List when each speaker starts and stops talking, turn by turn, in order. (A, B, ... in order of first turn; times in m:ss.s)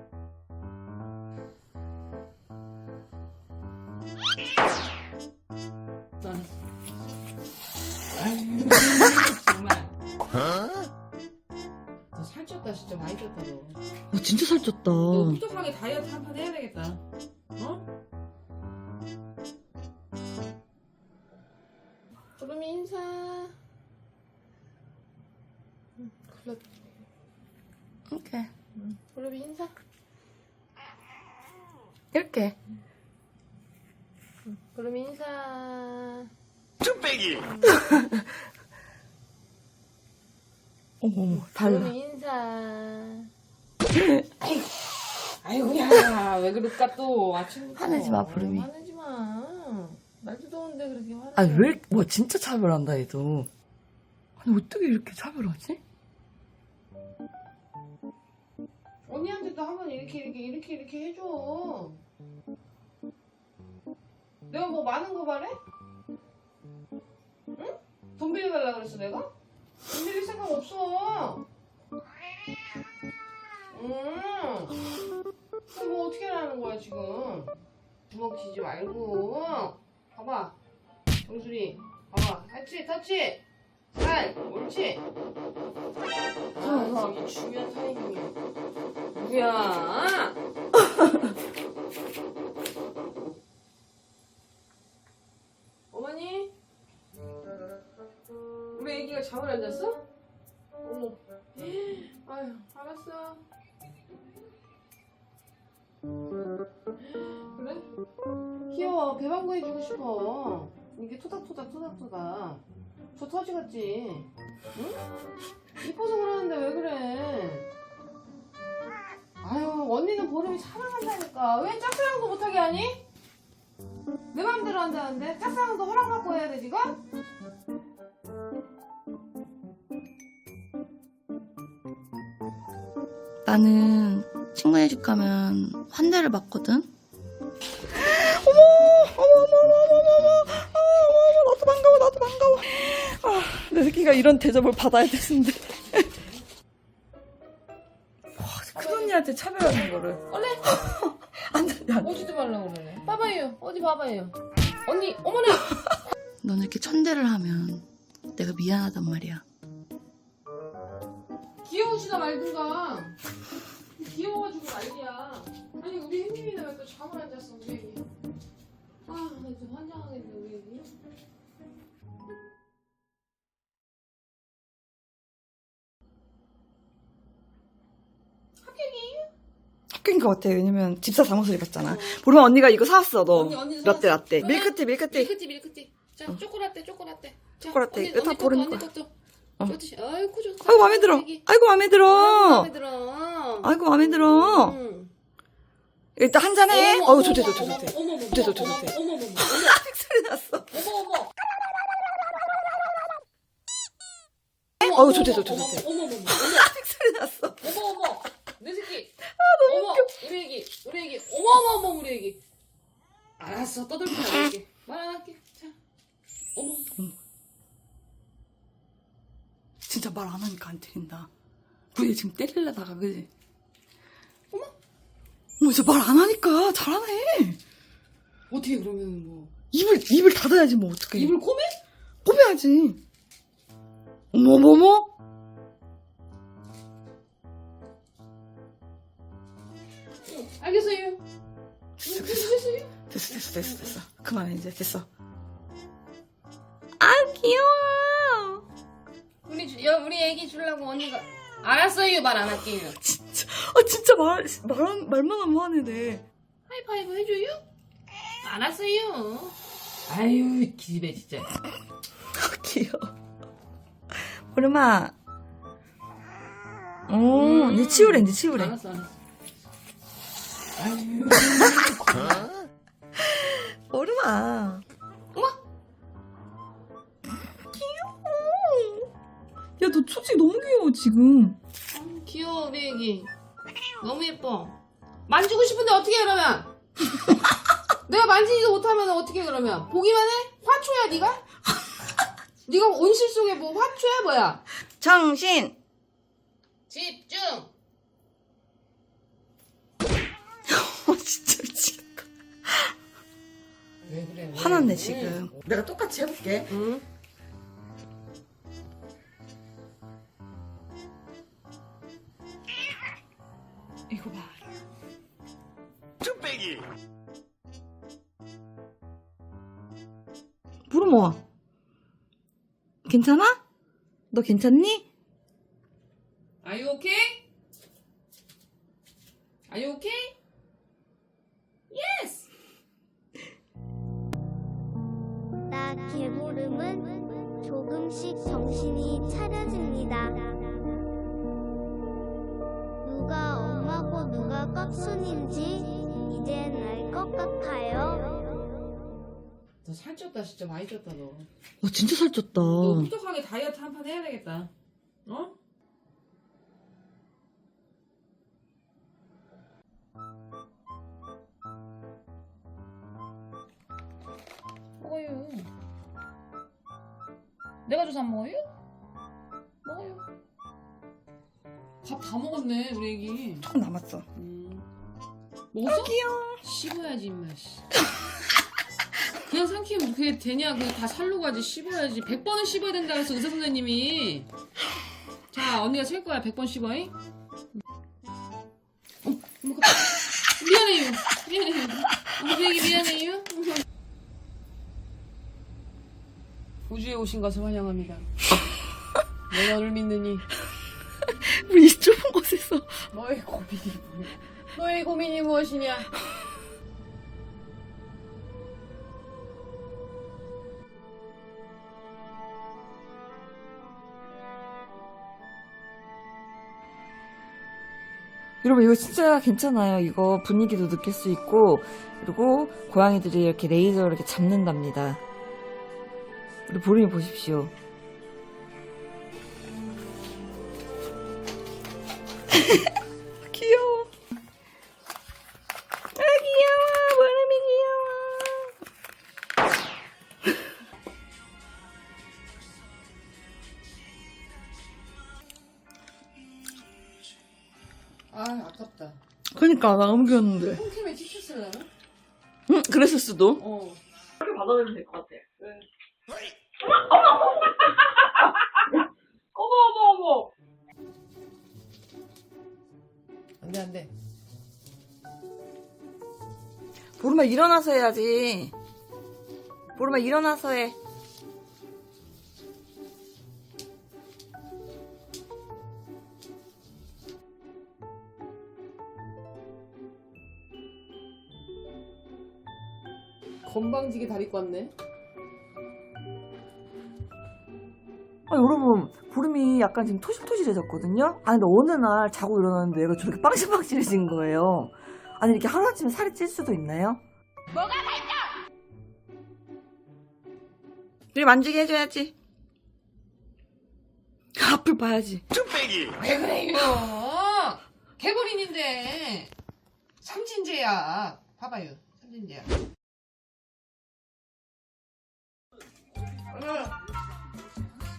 0:06.2-0:06.5 A
0:08.2-0:09.9 A
0:12.1-0:13.8 A
0:14.1-0:15.4 B
0:15.0-0:17.0 A
0:17.6-0:17.8 A
0:22.4-0:23.5 A
0:26.0-0:26.7 A
0:28.1-0:28.5 B
0:28.8-0:29.7 A
0:32.1-0:32.5 B
0:34.5-0:36.3 A
0:36.8-0:38.2 B
0:37.3-0:37.7 A
0:41.0-0:41.9 B
0:41.3-0:43.3 A
0:43.9-0:44.3 B
0:45.4-0:51.8 A
0:47.7-0:48.7 B
0:51.3-0:53.5 B
0:54.4-0:55.8 B
0:59.1-1:02.0 A
1:04.5-1:05.6 A
1:07.6-1:09.3 A
1:09.9-1:11.4 A
1:13.7-1:14.7 A
1:15.7-1:17.5 A
1:18.1-1:20.6 A
1:21.2-1:23.4 A
1:23.9-1:25.0 A
1:26.6-1:28.3 A
1:26.6-1:27.2 B
1:29.1-1:30.4 A
1:35.9-1:36.5 A
1:38.7-1:40.0 A
1:40.8-1:43.4 A
1:47.0-1:47.8 A
1:48.7-1:52.6 A
1:53.2-1:55.0 A
1:55.8-1:57.7 A
1:59.4-2:03.0 A
2:04.3-2:07.0 A
2:13.5-2:16.9 B
2:17.9-2:26.1 B
2:28.3-2:32.1 B
2:28.8-2:29.2 A
2:30.2-2:30.7 A
2:32.0-2:35.8 A
2:36.4-2:37.8 B
2:38.4-2:39.4 B
2:41.6-2:43.2 A
2:44.0-2:48.0 A
2:49.1-2:50.9 A
2:58.6-2:59.3 A
2:59.9-3:05.3 B
3:01.8-3:02.2 A
3:03.3-3:11.4 A
3:07.6-3:08.8 B
3:10.6-3:12.7 B
3:12.1-3:15.1 A
3:13.6-3:14.8 B
3:16.2-3:20.7 B
3:16.7-3:19.8 A
3:20.7-3:21.3 A
3:24.8-3:26.7 A
3:24.8-3:27.7 B
3:27.6-3:32.4 A
3:29.2-3:30.2 B
3:33.4-3:35.8 A
3:36.6-3:36.9 A
3:39.8-3:41.3 B
3:41.9-3:43.3 B
3:45.6-3:47.6 B
3:48.5-3:49.5 A
3:49.7-3:51.4 B
3:51.1-3:51.8 A
3:52.2-3:53.0 B
3:54.3-3:55.1 B
4:00.3-4:01.2 A
4:02.0-4:02.5 B
4:02.0-4:02.9 A
4:03.1-4:05.1 B
4:07.0-4:08.6 B
4:09.4-4:13.0 A
4:13.0-4:16.2 B
4:16.7-4:17.6 A
4:18.4-4:19.6 A
4:20.1-4:21.5 A
4:22.3-4:23.1 B
4:24.5-4:25.1 B
4:27.1-4:28.8 B
4:27.3-4:29.2 A
4:30.8-4:32.5 A
4:33.2-4:34.8 B
4:37.7-4:39.1 B
4:39.8-4:41.6 B
4:41.9-4:43.3 A
4:44.0-4:44.8 A
4:45.3-4:46.7 A
4:48.1-4:51.4 A
4:52.7-4:54.6 A
4:55.0-4:55.8 B
4:56.9-4:57.7 A
5:00.7-5:02.9 B
5:04.0-5:05.5 A
5:04.6-5:06.7 B
5:06.7-5:07.0 A
5:14.1-5:14.6 B
5:20.9-5:21.4 B
5:23.0-5:23.6 B
5:24.3-5:25.0 B
5:26.6-5:27.4 A
5:29.7-5:30.3 A
5:31.9-5:32.5 A
5:35.7-5:40.6 C
5:43.0-5:48.6 C
5:49.8-5:51.5 A
5:51.8-5:53.1 B
5:52.6-5:54.7 A
5:55.3-5:55.5 A
6:05.0-6:05.7 A
6:07.9-6:08.7 A
6:09.8-6:10.2 A
6:12.0-6:13.7 A
6:13.7-6:14.3 B
6:14.4-6:14.9 A
6:15.7-6:17.9 A
6:15.8-6:16.6 B
6:19.5-6:24.5 A
6:25.5-6:27.1 A
6:29.2-6:33.7 A
6:36.9-6:38.3 A
6:39.5-6:40.5 A
6:41.4-6:43.0 B
6:43.1-6:46.1 A
6:58.6-7:05.2 B
7:06.7-7:07.7 B
7:12.5-7:12.9 B
7:13.5-7:14.1 B
7:16.2-7:18.7 B
7:28.3-7:29.2 A
7:29.5-7:30.8 B
7:30.7-7:31.9 A
7:32.7-7:33.6 B
7:33.6-7:34.0 A
7:34.4-7:35.6 B
7:39.6-7:40.4 A
7:43.6-7:44.1 A
7:47.2-7:48.7 B
7:50.0-7:51.0 B
8:03.6-8:04.9 A
8:08.5-8:17.2 B
8:21.3-8:22.3 B
8:24.6-8:25.8 B
8:26.1-8:29.5 A
8:30.2-8:32.7 A
8:36.5-8:36.9 A